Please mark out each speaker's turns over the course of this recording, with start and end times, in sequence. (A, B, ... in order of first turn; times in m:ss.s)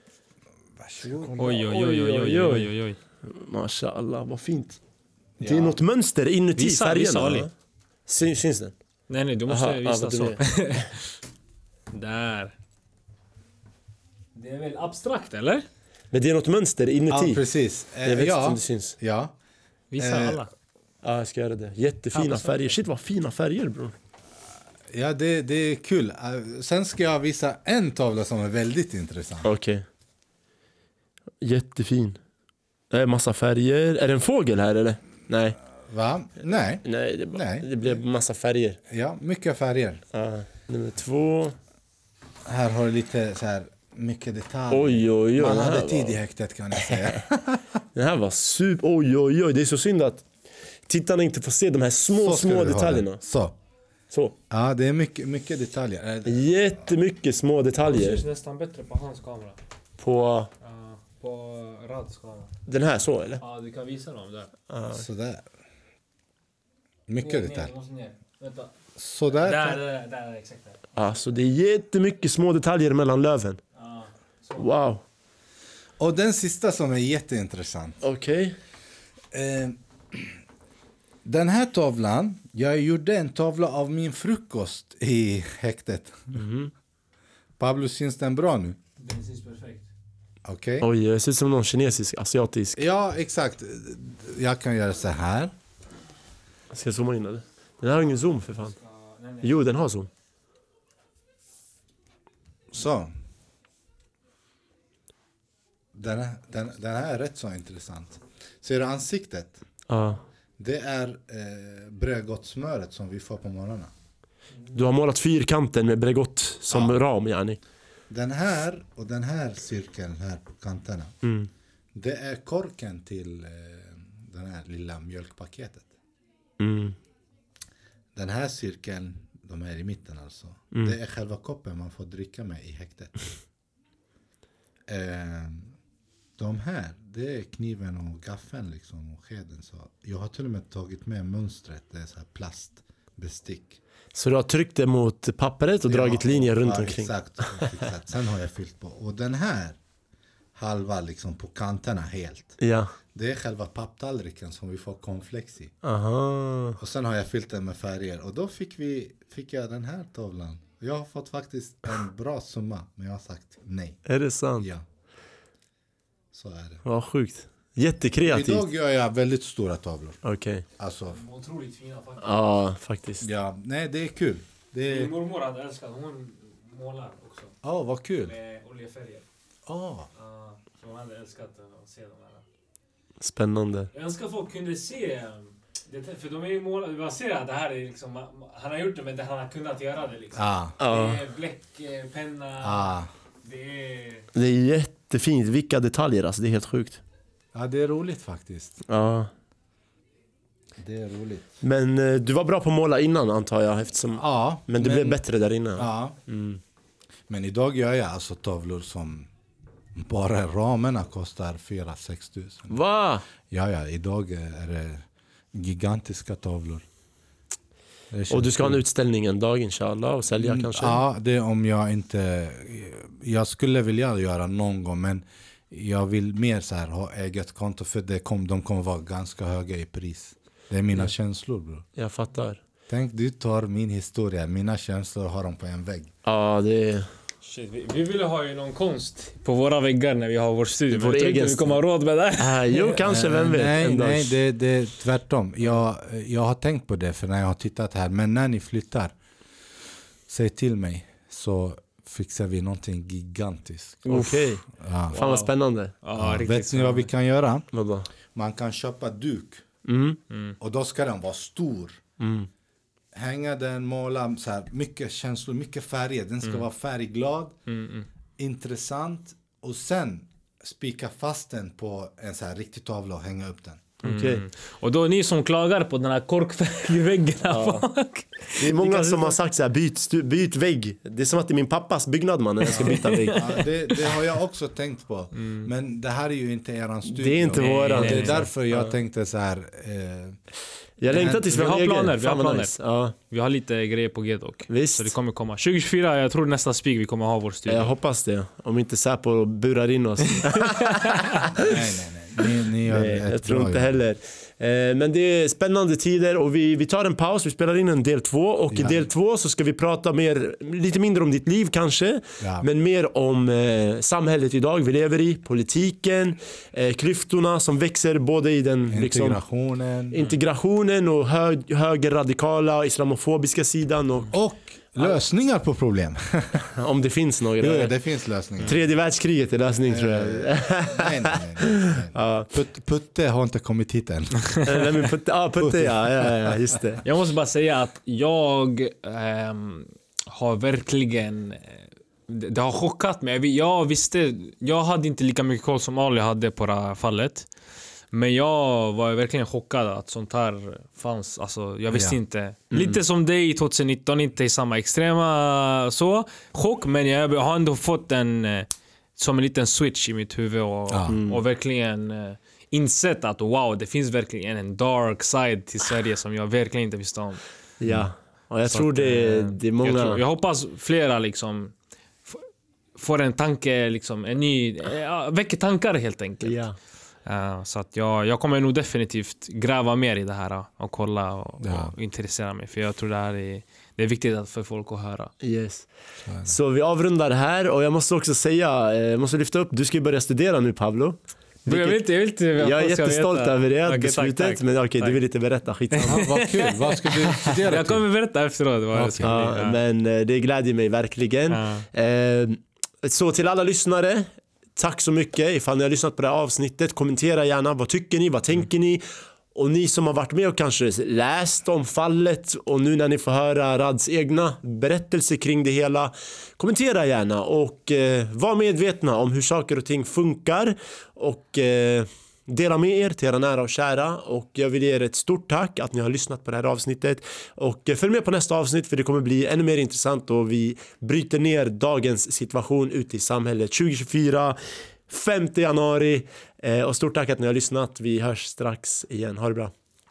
0:00.8-0:01.3 A
0:01.0-0:04.8 B
0:01.4-0:03.0 C
0:05.4-0:05.8 A
0:05.4-0:07.5 B
0:06.6-0:07.5 C
0:08.1-0:08.8 B
0:09.1-0:11.2 C
0:09.5-0:10.4 B
0:11.9-0:12.5 C
0:14.3-0:15.6 C
0:16.1-0:17.4 B
0:17.1-0:19.3 A
0:18.0-0:19.0 B
0:19.9-0:20.5 C
0:20.0-0:20.4 A
0:21.0-0:23.9 B
0:22.1-0:22.7 C
0:24.9-0:29.5 A
0:29.4-0:29.8 B
0:31.4-0:32.2 B
0:32.9-0:35.6 B
0:35.9-0:37.9 A
0:36.8-0:38.8 B
0:38.9-0:40.0 A
0:40.1-0:41.6 B
0:42.4-0:47.7 A
0:44.7-0:46.2 B
0:46.7-0:47.2 B
0:47.9-0:50.3 B
0:50.8-0:53.2 B
0:52.2-0:53.6 A
0:54.1-0:54.3 B
0:54.5-0:56.4 A
0:56.2-0:58.2 B
0:57.8-0:59.6 C
1:00.0-1:00.5 B
1:00.6-1:02.6 C
1:02.7-1:03.4 B
1:03.4-1:04.5 C
1:04.7-1:05.0 B
1:04.9-1:05.4 A
1:07.1-1:07.7 A
1:07.2-1:08.7 C
1:09.0-1:09.8 A
1:09.3-1:10.8 C
1:11.0-1:13.6 B
1:13.8-1:14.7 C
1:14.6-1:15.0 B
1:16.0-1:18.0 A
1:18.0-1:18.6 B
1:19.3-1:20.4 A
1:21.2-1:26.4 A
1:26.3-1:26.7 B
1:27.6-1:28.8 A
1:29.0-1:29.9 C
1:30.4-1:30.9 A
1:30.8-1:32.8 B
1:32.8-1:35.5 A
1:36.7-1:38.7 B
1:38.5-1:39.5 C
1:39.4-1:40.1 B
1:42.7-1:43.1 A
1:45.9-1:49.6 A
1:49.9-1:50.2 B
1:50.6-1:53.9 A
1:54.7-1:57.6 B
1:56.7-1:57.0 A
1:58.1-2:01.1 A
2:01.2-2:01.5 B
2:01.9-2:05.9 A
2:06.6-2:07.0 B
2:08.1-2:13.2 A
2:14.9-2:15.7 A
2:16.4-2:23.8 A
2:24.1-2:27.8 B
2:25.9-2:29.8 A
2:30.6-2:32.6 A
2:32.6-2:32.9 B
2:33.1-2:35.7 A
2:35.8-2:36.8 B
2:36.8-2:44.0 A
2:44.0-2:44.7 B
2:44.6-2:44.8 A
2:46.3-2:46.8 A
2:46.8-2:48.7 B
2:48.2-2:50.2 A
2:50.2-2:50.6 B
2:50.8-2:51.2 A
2:51.1-2:52.6 C
2:52.2-2:53.2 B
2:53.2-2:55.1 A
2:54.8-2:57.6 C
2:57.6-2:58.3 A
2:58.3-2:59.2 C
2:59.6-3:00.1 A
3:00.2-3:02.4 C
3:03.2-3:03.9 B
3:03.9-3:12.9 C
3:10.3-3:10.8 A
3:10.8-3:11.2 B
3:12.6-3:13.1 A
3:13.4-3:14.3 C
3:14.3-3:17.0 B
3:17.5-3:18.8 A
3:18.9-3:19.3 B
3:20.8-3:21.4 A
3:21.6-3:26.6 B
3:24.2-3:25.2 A
3:25.8-3:26.2 A
3:27.3-3:29.3 A
3:29.9-3:32.8 A
3:32.7-3:33.2 B
3:33.4-3:36.9 A
3:38.1-3:38.8 A
3:38.3-3:41.0 B
3:40.4-3:51.8 A
3:52.0-3:52.6 B
3:52.9-3:56.1 A
3:56.2-3:57.1 B
3:57.4-4:02.7 C
4:00.9-4:01.8 B
4:02.4-4:04.4 B
4:02.7-4:09.1 A
4:10.3-4:15.2 A
4:14.0-4:15.9 B
4:15.1-4:17.1 C
4:16.2-4:17.7 A
4:17.7-4:18.1 B
4:18.3-4:19.6 A
4:19.8-4:20.2 B
4:20.3-4:20.6 C
4:20.6-4:22.0 A
4:22.2-4:22.5 B
4:23.1-4:27.5 A
4:27.7-4:28.0 C
4:28.4-4:33.8 A
4:34.0-4:34.4 B
4:34.0-4:39.4 C
4:37.5-4:37.9 B
4:38.6-4:43.6 B
4:42.6-4:44.2 C
4:42.8-4:50.4 A
4:45.4-4:45.7 C
4:47.1-4:48.9 B
4:47.5-4:48.5 C
4:51.0-4:53.1 B
4:51.1-4:51.5 A
4:51.5-4:57.9 C
4:54.7-4:55.1 B
4:57.7-5:01.7 B
5:00.4-5:01.6 C
5:01.6-5:04.0 A
5:02.8-5:19.4 B
5:08.7-5:09.1 A
5:12.4-5:12.6 A
5:18.9-5:20.2 A
5:20.1-5:24.3 B
5:24.3-5:26.7 A
5:24.9-5:25.2 B
5:26.7-5:27.9 B
5:27.6-5:28.8 A
5:28.6-5:32.5 B
5:29.8-5:34.7 A
5:34.6-5:37.0 B
5:35.6-5:36.6 A
5:37.0-5:47.5 C
5:48.1-6:07.4 C
5:51.9-5:52.2 A
5:52.7-5:53.0 B
6:00.9-6:01.2 A
6:01.1-6:01.4 B
6:07.8-6:10.2 B
6:08.7-6:11.7 C
6:12.3-6:16.6 C
6:16.4-6:16.8 B
6:17.2-6:25.3 C
6:21.6-6:21.9 A
6:25.4-6:25.9 B
6:26.2-6:26.6 A
6:26.4-6:32.0 B
6:31.7-6:35.2 C
6:32.6-6:36.3 B
6:35.9-6:39.8 C
6:36.0-6:38.0 A
6:38.9-6:39.3 A
6:39.2-7:19.7 B
6:41.5-6:41.9 C